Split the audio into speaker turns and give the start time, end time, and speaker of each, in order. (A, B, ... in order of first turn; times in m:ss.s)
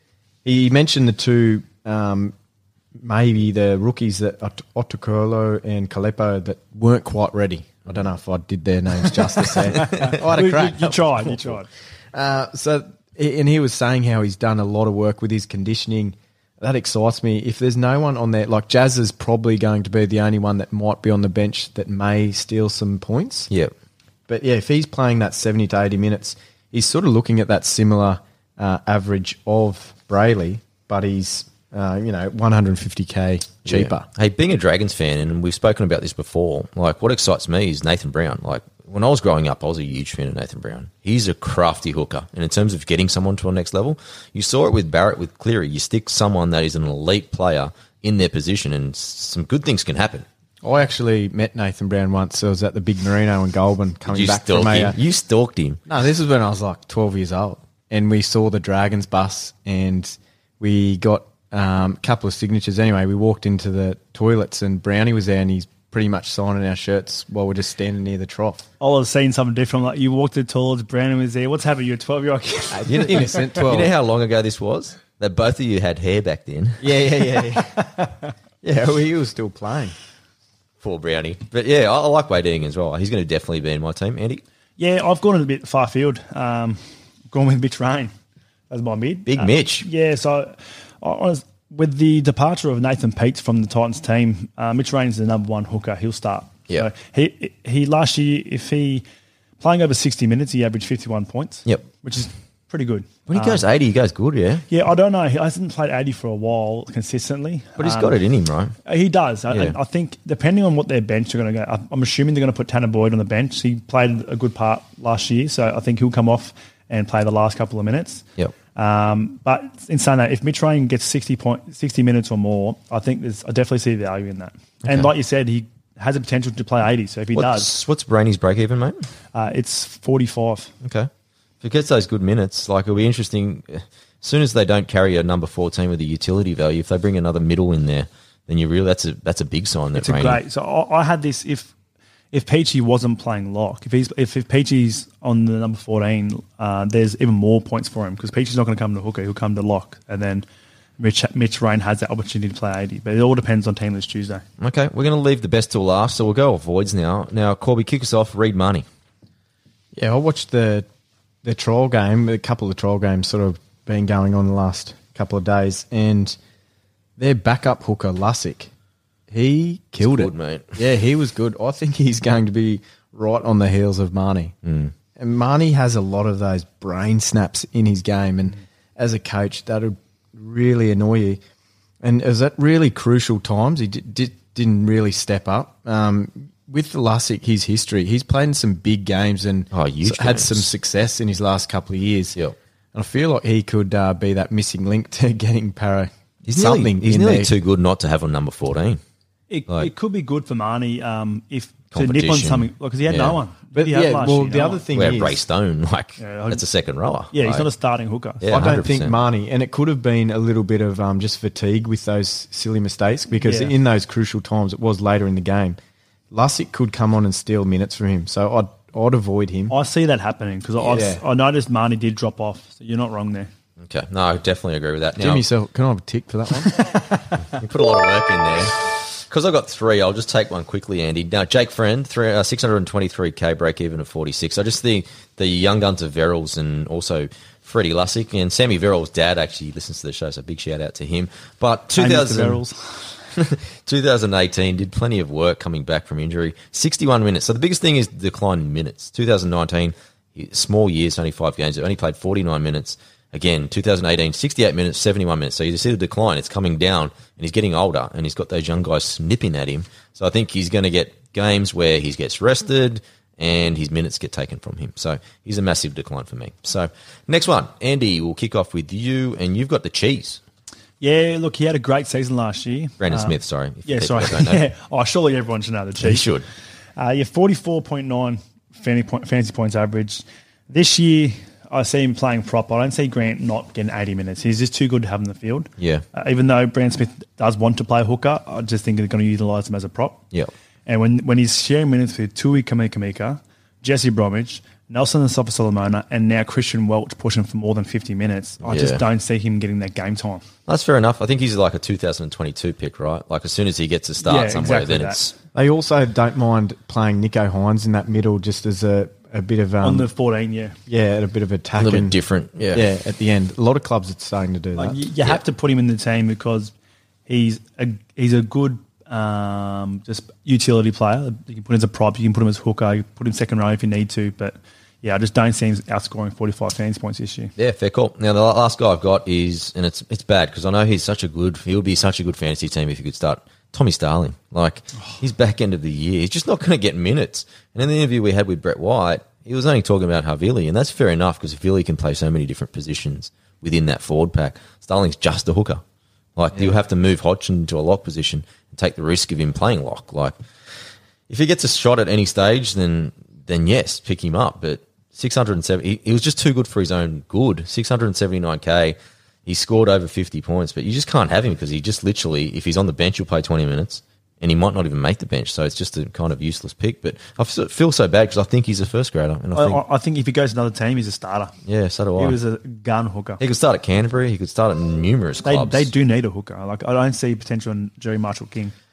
0:00.4-0:02.3 A
0:03.0-0:11.6 A
0:09.8-0:11.7 B
0:09.8-0:10.2 C
0:12.1-0:23.5 A
0:24.3-0:34.1 A
0:33.7-0:50.2 C
0:50.6-0:55.0 A
0:54.1-0:55.8 C
0:55.9-1:08.6 A
1:08.8-1:13.2 B
1:12.7-1:13.9 A
1:12.9-1:16.8 C
1:16.8-1:18.0 A
1:17.5-1:18.1 B
1:18.6-1:20.0 A
1:20.8-1:24.4 C
1:24.8-1:28.1 B
1:28.7-1:39.0 B
1:29.3-1:29.9 C
1:39.6-1:43.7 B
1:43.3-1:44.6 C
1:44.7-1:48.2 B
1:47.8-1:48.7 C
1:48.8-2:07.7 B
2:07.4-2:09.0 C
2:09.3-2:10.7 B
2:10.8-2:11.1 C
2:11.6-2:20.4 C
2:19.9-2:21.7 B
2:22.3-2:30.4 B
2:31.0-2:34.4 B
2:34.6-2:38.8 C
2:40.0-2:40.9 A
2:41.4-2:46.4 A
2:47.2-2:48.7 A
2:49.3-2:54.6 A
2:50.0-2:50.8 C
2:54.6-2:54.9 C
2:55.2-3:01.4 A
3:02.0-3:12.4 A
3:09.7-3:10.7 C
3:12.9-3:17.5 A
3:16.5-3:19.0 C
3:19.5-3:24.8 B
3:21.9-3:23.4 C
3:23.8-3:25.4 A
3:24.9-3:27.7 C
3:26.2-3:26.6 B
3:27.3-3:28.4 B
3:28.4-3:29.2 C
3:28.5-3:35.8 A
3:33.4-3:33.8 B
3:36.3-3:39.8 A
3:39.7-3:43.5 B
3:40.8-3:41.2 A
3:43.8-3:45.4 C
3:45.2-3:46.9 A
3:46.8-3:47.3 B
3:47.5-4:02.6 C
4:01.9-4:03.1 B
4:03.4-4:30.4 C
4:31.0-4:36.3 B
4:33.0-4:34.6 C
4:36.0-4:36.4 C
4:37.0-4:50.2 B
4:45.8-4:46.0 C
4:50.9-5:00.5 B
4:58.6-4:59.0 C
5:00.7-5:05.3 C
5:04.2-5:05.3 B
5:05.5-5:10.1 A
5:09.8-5:10.8 B
5:10.9-5:12.2 A
5:11.8-5:12.9 C
5:12.7-5:15.0 A
5:14.8-5:16.7 B
5:17.3-5:27.5 B
5:27.6-5:45.8 C
5:46.4-5:50.4 C
5:51.3-6:09.8 C
6:09.5-6:11.5 B
6:11.6-6:12.4 C
6:12.2-6:13.4 B
6:13.4-6:15.9 C
6:15.4-6:18.7 B